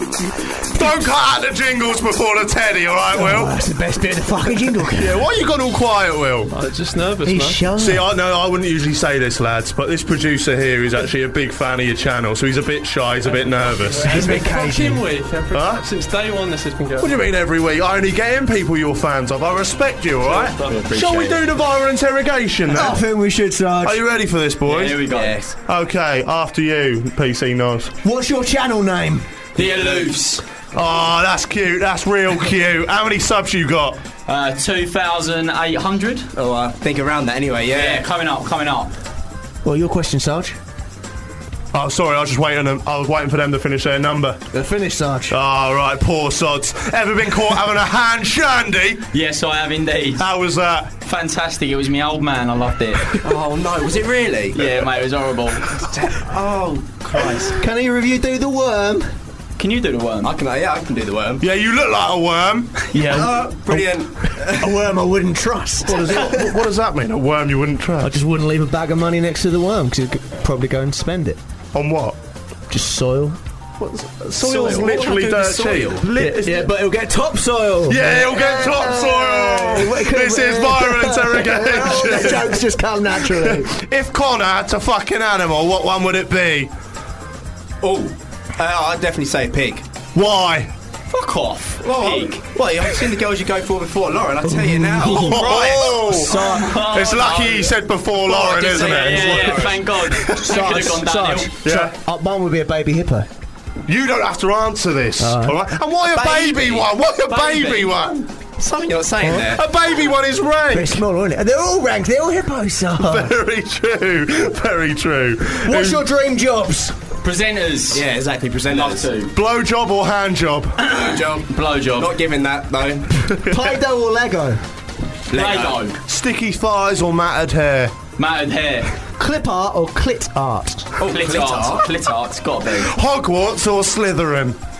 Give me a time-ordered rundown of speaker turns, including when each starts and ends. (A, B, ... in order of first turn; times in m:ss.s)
0:00.7-0:03.6 A
0:03.1-0:05.2 B
0:04.7-0:06.5 A
0:06.5-0:07.6 C
0:07.2-0:08.1 B
0:07.8-0:14.6 A
0:13.9-0:17.1 C
0:14.0-0:15.0 B
0:15.5-0:15.8 A
0:17.0-0:23.0 A
0:20.2-0:20.7 C
0:20.5-0:21.4 D
0:22.7-0:24.0 B
0:23.8-0:25.1 A
0:24.6-0:25.4 D
0:25.1-0:25.5 E
0:25.6-0:27.9 A
0:28.0-0:29.3 B
0:29.6-0:30.4 D
0:29.6-0:30.2 E
0:30.7-0:34.0 A
0:34.3-0:36.3 D
0:36.3-0:38.1 E
0:37.7-0:38.9 D
0:39.6-0:40.6 B
0:41.7-0:44.4 A
0:44.5-0:45.4 B
0:45.3-0:49.1 A
0:49.1-0:50.3 D
0:50.2-0:50.9 A
0:51.0-0:53.2 D
0:53.2-0:54.9 E
0:54.5-0:55.9 D
0:55.7-0:57.6 E
0:57.1-0:57.5 D
0:57.6-0:59.1 B
0:59.6-1:00.3 D
1:00.2-1:01.4 E
1:01.4-1:02.8 A
1:02.9-1:06.5 B
1:03.0-1:04.8 E
1:05.8-1:08.1 A
1:08.0-1:11.4 B
1:11.7-1:12.2 A
1:12.7-1:13.4 B
1:13.8-1:16.7 A
1:14.4-1:16.1 E
1:16.1-1:23.7 B
1:17.8-1:26.7 A
1:27.8-1:29.8 E
1:30.1-1:30.7 A
1:31.1-1:32.5 D
1:31.8-1:36.2 E
1:34.5-1:36.8 B
1:35.1-1:40.8 A
1:36.0-1:37.7 D
1:38.2-1:39.9 E
1:38.6-1:41.6 D
1:40.3-1:43.3 B
1:41.6-1:42.0 A
1:43.8-1:48.3 A
1:45.2-1:45.6 B
1:46.2-1:46.7 E
1:46.4-1:46.7 D
1:48.6-1:49.6 E
1:49.2-1:49.5 B
1:49.5-1:51.0 A
1:50.7-1:53.3 B
1:53.0-1:56.0 A
1:55.6-1:57.0 B
1:57.2-1:58.0 D
1:57.9-1:59.2 E
1:58.7-1:59.3 D
1:59.3-2:00.8 A
2:00.8-2:02.2 D
2:00.9-2:03.2 E
2:03.3-2:03.8 A
2:03.4-2:04.6 B
2:05.3-2:05.9 E
2:05.3-2:06.0 D
2:06.0-2:08.0 A
2:08.2-2:08.9 D
2:09.2-2:11.0 B
2:11.0-2:11.9 E
2:11.0-2:12.9 D
2:12.7-2:14.6 A